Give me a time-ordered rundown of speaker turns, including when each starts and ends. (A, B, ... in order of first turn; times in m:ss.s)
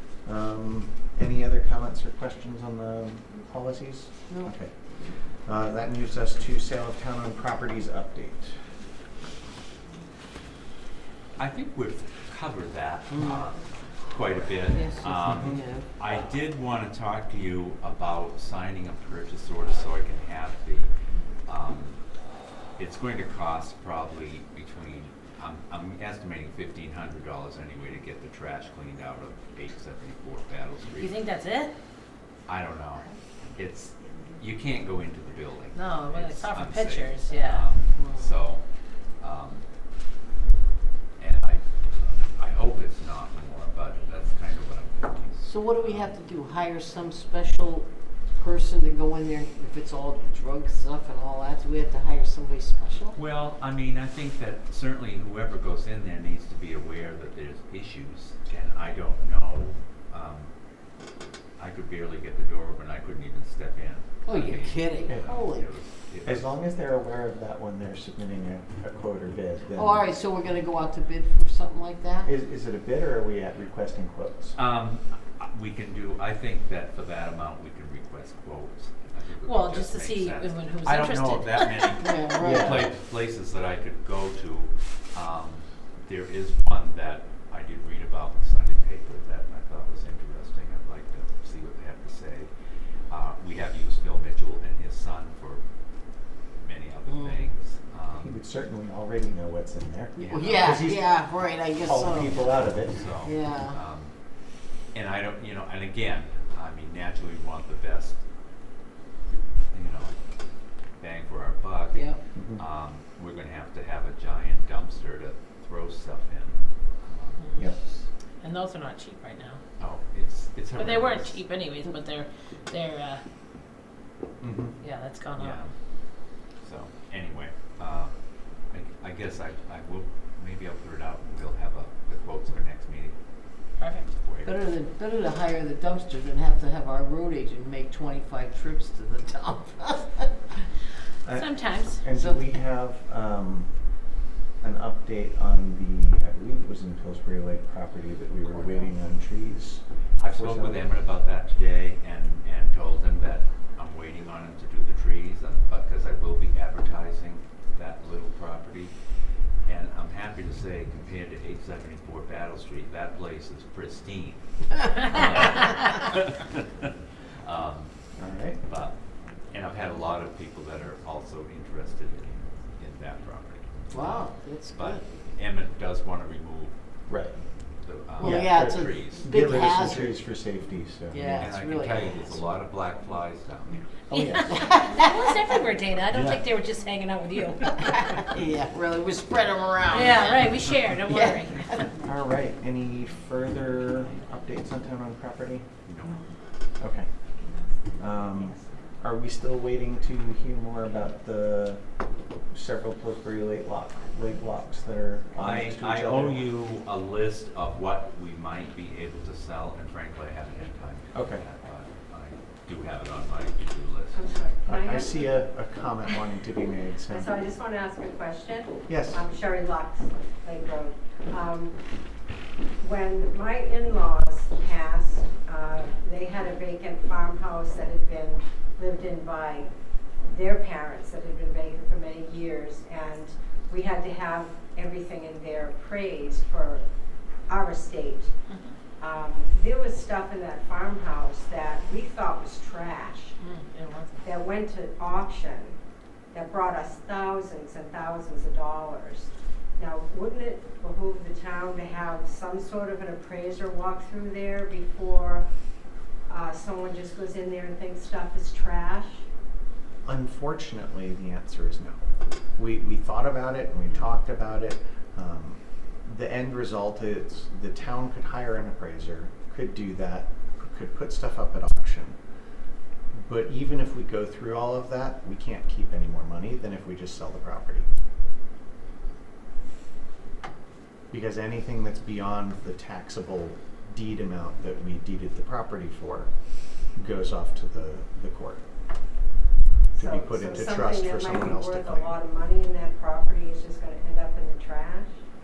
0:00.2-0:04.7 A
0:05.4-0:08.6 A
0:11.4-0:20.9 B
0:13.1-0:13.4 C
0:14.7-0:15.9 C
0:15.2-0:15.6 A
0:21.5-0:22.0 B
0:22.8-0:31.2 B
0:30.9-0:31.7 D
0:32.5-0:38.6 B
0:35.7-0:37.7 D
0:38.0-0:38.4 C
0:39.2-0:39.7 B
0:41.2-0:46.1 B
0:45.4-0:53.2 C
0:53.2-1:00.5 B
1:01.6-1:06.6 B
1:04.2-1:05.7 C
1:06.2-1:10.1 A
1:09.7-1:12.3 C
1:12.2-1:14.6 A
1:14.6-1:32.5 B
1:19.4-1:22.0 D
1:22.0-1:22.9 C
1:22.4-1:22.9 A
1:33.1-1:35.6 B
1:36.6-1:38.4 B
1:37.1-1:37.4 C
1:38.1-1:41.1 A
1:40.2-1:43.8 C
1:40.2-1:40.8 B
1:41.8-1:43.0 A
1:42.2-1:44.1 B
1:44.9-1:48.2 B
1:49.7-1:50.2 B
1:51.0-1:57.6 B
1:51.9-1:52.2 C
1:52.4-1:52.6 A
1:57.4-1:57.7 D
1:58.4-1:59.6 D
1:59.8-2:01.4 B
2:00.8-2:03.2 D
2:04.4-2:04.8 A
2:04.8-2:05.7 D
2:05.4-2:05.7 B
2:06.6-2:08.1 B
2:08.7-2:13.2 B
2:13.8-2:14.1 D
2:14.2-2:14.6 B
2:14.4-2:20.3 C
2:21.2-2:23.7 A
2:21.3-2:22.0 D
2:22.1-2:22.6 C
2:24.6-2:30.9 A
2:30.2-2:38.9 B
2:39.6-2:46.6 B
2:47.4-2:48.0 B
2:48.2-2:48.6 A
2:48.7-2:49.0 B
2:49.5-2:56.8 B
2:53.9-2:55.0 C
2:57.1-2:57.4 A
2:57.8-2:59.3 B
2:58.2-3:00.2 C
2:58.2-3:01.6 A
3:01.1-3:02.4 C
3:01.4-3:03.9 B
3:04.1-3:04.8 A
3:04.1-3:08.2 D
3:04.5-3:05.6 C
3:07.8-3:11.9 C
3:09.9-3:11.9 D
3:12.0-3:15.7 A
3:15.8-3:16.3 B
3:16.8-3:17.1 A
3:18.0-3:21.8 A
3:22.5-3:26.5 A
3:25.4-3:34.2 B
3:31.1-3:31.4 A
3:34.1-3:35.4 E
3:34.7-3:37.3 A
3:37.1-3:41.8 E
3:38.9-3:39.2 A
3:42.8-3:49.7 E
3:50.3-3:56.8 E
3:57.5-3:58.3 E
3:58.5-3:58.8 D
3:59.0-4:03.4 E
4:03.4-4:04.2 D
4:04.2-4:05.8 E
4:06.3-4:15.5 E
4:16.3-4:19.2 E
4:20.0-4:22.0 A
4:22.6-4:32.2 A
4:33.1-4:37.9 A
4:41.1-4:46.3 A
4:47.0-4:48.6 A
4:50.0-4:55.1 E
4:50.0-4:52.2 A